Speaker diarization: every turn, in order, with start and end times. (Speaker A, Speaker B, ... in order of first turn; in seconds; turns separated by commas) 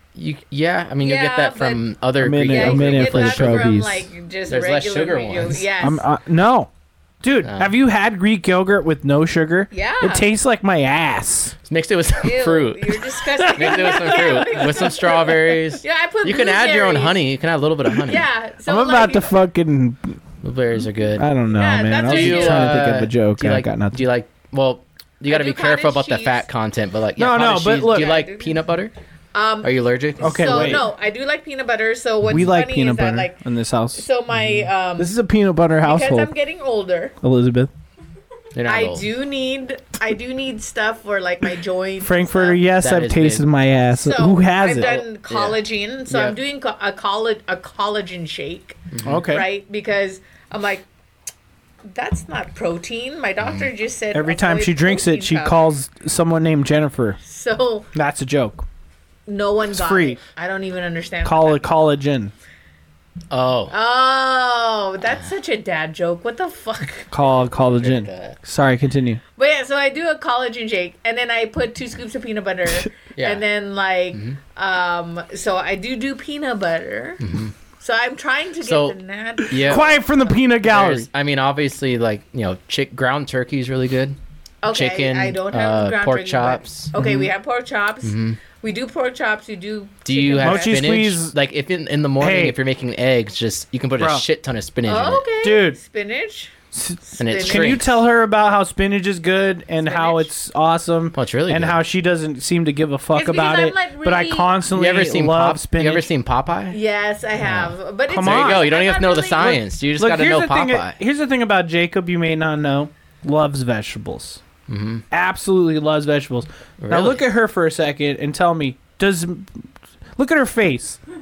Speaker A: 0.1-3.7, Speaker B: 1.0-1.8, Speaker C: 2.2-4.1, Speaker B: 2.5-6.0, Speaker A: 4.5-5.7, Speaker C: 5.8-6.7, Speaker C: 7.2-11.6, Speaker A: 7.4-7.7, Speaker B: 9.7-10.2, Speaker A: 11.7-18.2, Speaker B: 12.2-17.2, Speaker C: 13.4-14.5, Speaker B: 18.0-19.3, Speaker C: 18.6-20.2, Speaker A: 20.4-21.3, Speaker C: 21.1-24.0, Speaker B: 21.5-22.9, Speaker A: 22.1-28.9, Speaker B: 25.3-26.4, Speaker C: 27.2-28.2, Speaker B: 27.9-28.6, Speaker B: 29.3-33.4, Speaker A: 29.6-30.9, Speaker C: 30.2-30.9, Speaker C: 32.3-36.3, Speaker B: 33.9-35.1, Speaker B: 35.8-37.1, Speaker C: 37.2-37.7, Speaker A: 38.5-39.1, Speaker B: 38.6-42.6, Speaker C: 42.0-44.9, Speaker A: 42.8-43.5, Speaker B: 43.9-50.9, Speaker A: 44.7-46.4, Speaker A: 48.9-49.2, Speaker C: 49.0-49.5, Speaker B: 51.9-55.6, Speaker A: 53.4-53.7, Speaker C: 54.1-57.2, Speaker B: 57.2-57.9, Speaker C: 57.9-58.6, Speaker B: 59.3-61.7, Speaker C: 59.7-60.2, Speaker C: 61.2-62.3, Speaker A: 63.3-63.7, Speaker B: 63.7-67.1, Speaker C: 67.1-69.2, Speaker A: 67.6-68.4, Speaker B: 69.4-77.2, Speaker A: 73.2-73.4, Speaker A: 74.1-74.4, Speaker A: 77.2-77.5, Speaker B: 77.8-80.0, Speaker A: 78.6-79.0, Speaker C: 79.4-81.1, Speaker A: 79.5-79.9, Speaker A: 80.6-84.2, Speaker B: 84.6-90.8, Speaker A: 84.7-86.9, Speaker C: 86.9-87.3, Speaker A: 88.0-88.4, Speaker A: 90.0-95.2, Speaker C: 90.4-91.3, Speaker C: 92.2-92.6, Speaker C: 94.0-94.2, Speaker B: 94.8-97.8, Speaker C: 95.4-95.8, Speaker C: 96.7-106.1, Speaker A: 97.2-98.0, Speaker B: 99.8-100.3, Speaker A: 101.1-101.8, Speaker B: 103.1-104.5, Speaker A: 104.7-106.8, Speaker B: 106.7-109.6, Speaker A: 107.4-111.0, Speaker C: 108.1-108.7, Speaker C: 110.0-114.4, Speaker A: 114.7-115.0, Speaker C: 115.1-119.6, Speaker A: 116.8-117.2, Speaker C: 120.2-121.0